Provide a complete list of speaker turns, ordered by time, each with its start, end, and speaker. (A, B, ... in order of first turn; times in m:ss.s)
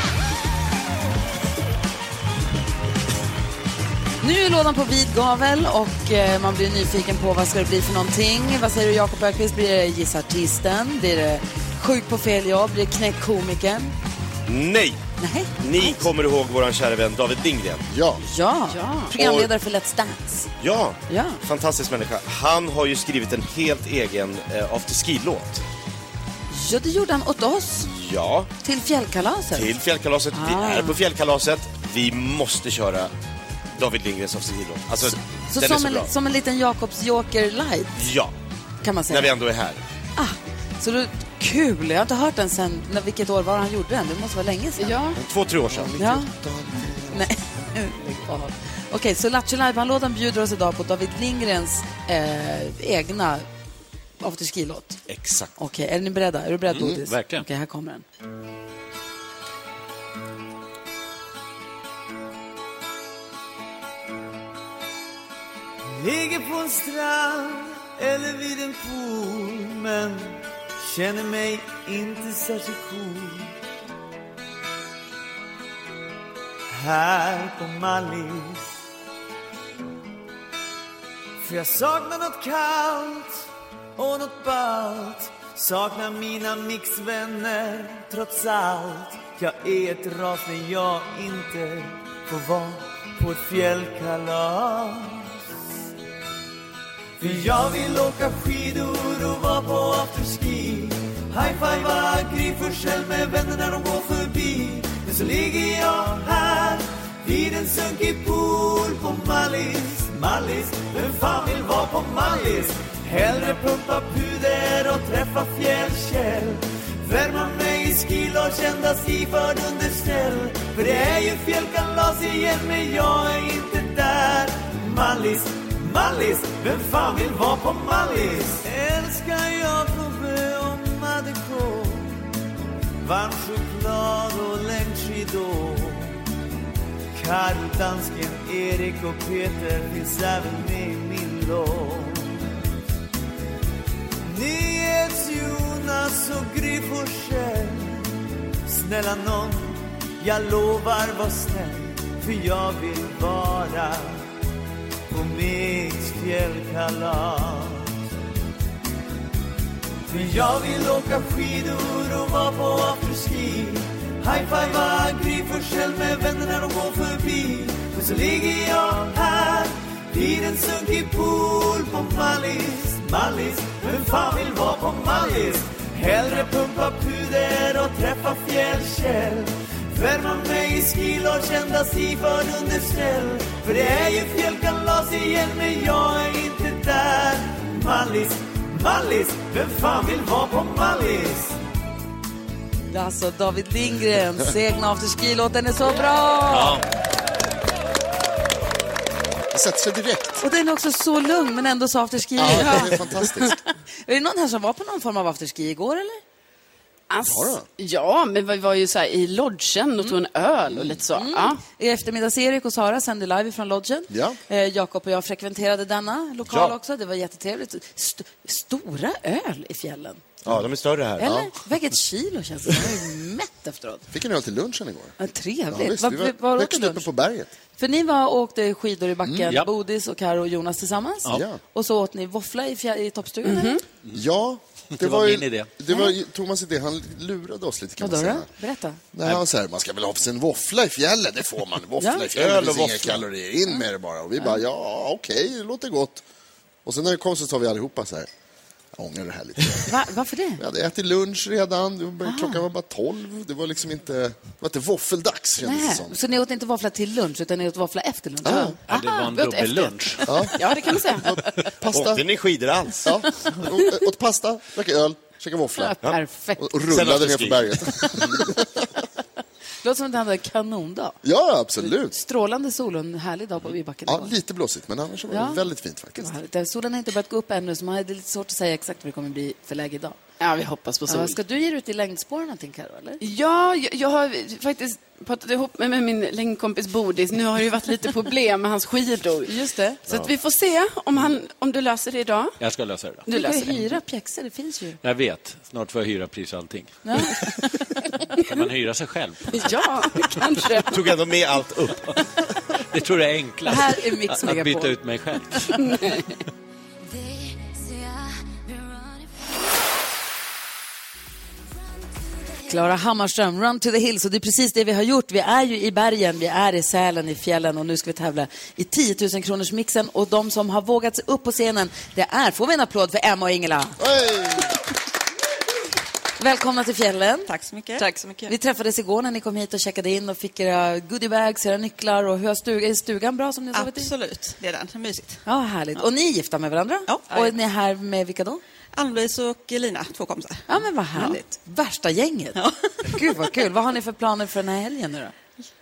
0:04.2-0:13.9 A
0:14.5-0:15.0 B
0:15.2-0:16.0 A
0:15.6-0:17.9 B
0:17.9-0:18.2 C
0:18.2-0:20.5 A
0:18.7-0:19.1 D
0:19.2-0:19.5 B
0:20.6-0:25.6 B
0:21.1-0:21.4 A
0:26.5-0:27.9 A
0:27.8-0:28.5 B
0:28.6-0:29.7 A
0:29.5-0:33.1 B
0:30.3-0:31.0 A
0:33.8-0:36.1 B
0:35.1-0:38.0 A
0:38.0-0:38.3 B
0:38.8-0:39.3 A
0:39.1-0:39.8 B
0:40.2-0:45.0 A
0:44.8-0:45.2 D
0:45.2-0:47.1 B
0:46.0-0:46.3 A
0:47.1-0:53.5 A
0:54.2-0:55.0 A
0:55.1-0:55.5 B
0:55.6-0:58.0 A
0:56.7-0:57.5 E
1:06.0-1:13.5 F
1:16.7-1:18.8 F
1:21.4-1:23.4 F
1:24.0-1:35.4 F
1:37.2-2:12.3 F
2:13.0-2:16.2 F
2:17.1-2:22.4 F
2:24.2-2:34.2 F
2:35.1-2:37.9 F
2:40.1-3:11.6 F
3:12.9-3:16.8 A
3:19.5-3:20.4 C
3:20.4-3:23.6 A
3:22.4-3:23.5 C
3:24.1-3:26.2 A
3:27.1-3:31.6 D
3:27.2-3:27.6 C
3:30.7-3:31.0 C
3:31.1-3:40.2 A
3:34.1-3:34.4 C
3:36.5-3:36.8 B
3:40.5-3:41.4 B
3:41.2-3:44.0 A
3:41.2-3:41.5 C
3:44.1-3:45.2 C
3:45.2-3:47.1 A
3:45.7-3:47.5 C
3:47.8-3:53.8 A
3:49.2-3:49.5 C
3:51.3-3:51.6 C
3:53.4-3:53.8 D
3:54.1-3:58.5 C
3:55.0-3:55.7 E
3:58.0-3:59.0 A
3:59.1-4:06.2 C
4:02.0-4:02.3 A
4:02.3-4:03.2 B
4:06.8-4:08.3 C
4:09.0-4:10.0 C
4:09.9-4:10.6 A
4:10.6-4:16.2 C
4:12.2-4:12.6 A
4:15.6-4:18.8 A
4:18.4-4:18.8 C
4:18.9-4:20.3 E
4:18.9-4:21.7 D
4:20.3-4:22.2 C
4:21.9-4:23.2 B
4:23.0-4:28.6 C
4:25.8-4:26.5 D
4:26.9-4:28.4 B
4:29.8-4:31.2 A
4:31.2-4:32.2 C
4:31.8-4:34.4 A
4:34.1-4:36.3 C
4:35.3-4:40.2 A
4:40.4-4:41.4 D
4:41.1-4:43.2 A
4:43.2-4:49.5 D
4:49.5-4:50.0 A
4:50.1-4:52.6 D
4:52.6-4:53.3 E
4:53.3-4:53.8 D
4:53.3-4:55.0 A
4:55.0-4:57.5 E
4:57.0-4:57.7 A
4:58.3-5:00.4 E
4:59.5-5:01.0 D
5:00.9-5:02.2 B
5:02.9-5:06.2 E
5:03.6-5:05.0 A
5:05.8-5:06.3 D
5:12.6-5:24.0 A
5:24.0-5:24.8 C
5:26.4-5:34.1 A
5:27.5-5:28.5 G
5:33.7-5:35.4 G
5:35.4-5:38.6 A
5:37.1-5:37.6 G
5:39.0-5:41.4 G
5:40.7-5:45.4 A